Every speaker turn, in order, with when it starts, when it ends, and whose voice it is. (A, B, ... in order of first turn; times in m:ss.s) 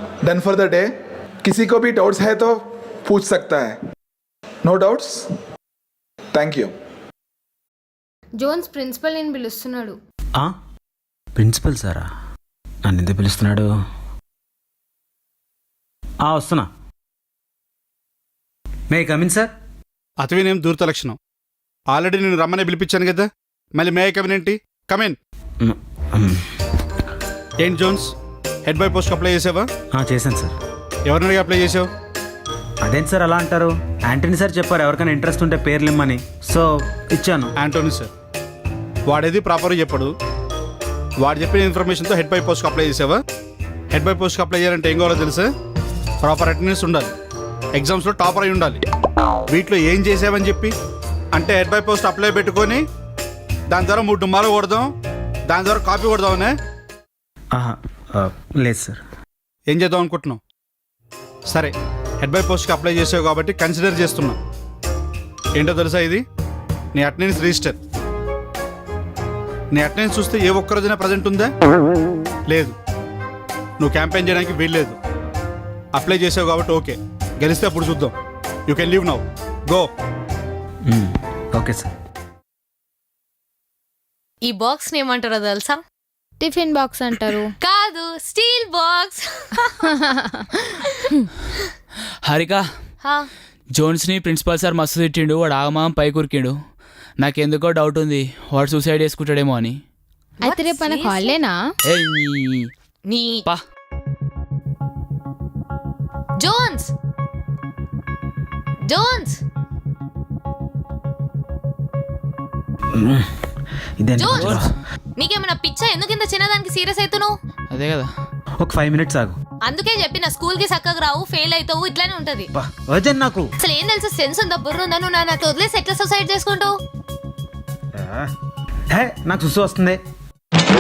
0:00.2-0:00.9 A
0:01.4-0:03.8 A
0:04.6-0:05.2 A
0:06.3-0:06.7 A
0:08.4-0:10.0 B
0:11.4-0:12.1 C
0:12.8-0:13.7 C
0:16.2-0:16.7 C
0:18.9-0:19.5 C
0:20.2-0:21.2 D
0:21.9-0:25.2 D
0:25.6-0:26.4 C
0:27.6-0:28.1 D
0:28.6-0:29.7 D
0:29.9-0:30.5 C
0:31.1-0:31.9 D
0:32.8-0:37.5 C
0:37.6-0:38.1 D
0:39.1-0:40.1 D
0:41.2-0:43.2 D
0:43.9-0:45.5 D
0:46.2-0:47.1 D
0:47.8-0:48.8 D
0:49.5-0:50.7 D
0:51.3-0:52.8 D
0:53.7-0:54.9 D
0:55.5-0:56.5 D
0:57.5-0:59.0 C
0:59.7-1:00.4 D
1:01.5-1:04.4 D
1:05.6-1:06.2 D
1:06.9-1:07.8 D
1:09.7-1:11.5 D
1:12.5-1:12.8 D
1:13.8-1:15.0 D
1:15.9-1:18.2 D
1:18.7-1:19.9 D
1:20.9-1:21.9 C
1:24.4-1:25.8 E
1:26.4-1:27.5 B
1:27.6-1:29.6 E
1:32.2-1:32.6 F
1:33.0-1:33.3 E
1:33.8-1:36.6 F
1:37.2-1:39.8 F
1:40.4-1:41.4 E
1:40.4-1:41.6 B
1:41.9-1:42.7 F
1:43.1-1:43.4 E
1:46.4-1:46.9 E
1:48.9-1:49.4 E
1:52.9-1:53.3 C
1:54.0-1:54.7 C
1:54.2-1:54.6 E
1:54.3-1:54.7 F
1:55.2-1:57.4 E
1:57.7-1:58.1 F
1:58.6-1:59.4 C
1:59.6-2:02.5 E
2:02.5-2:03.5 C
2:03.6-2:06.8 E
2:07.9-2:08.3 C
2:08.9-2:10.0 C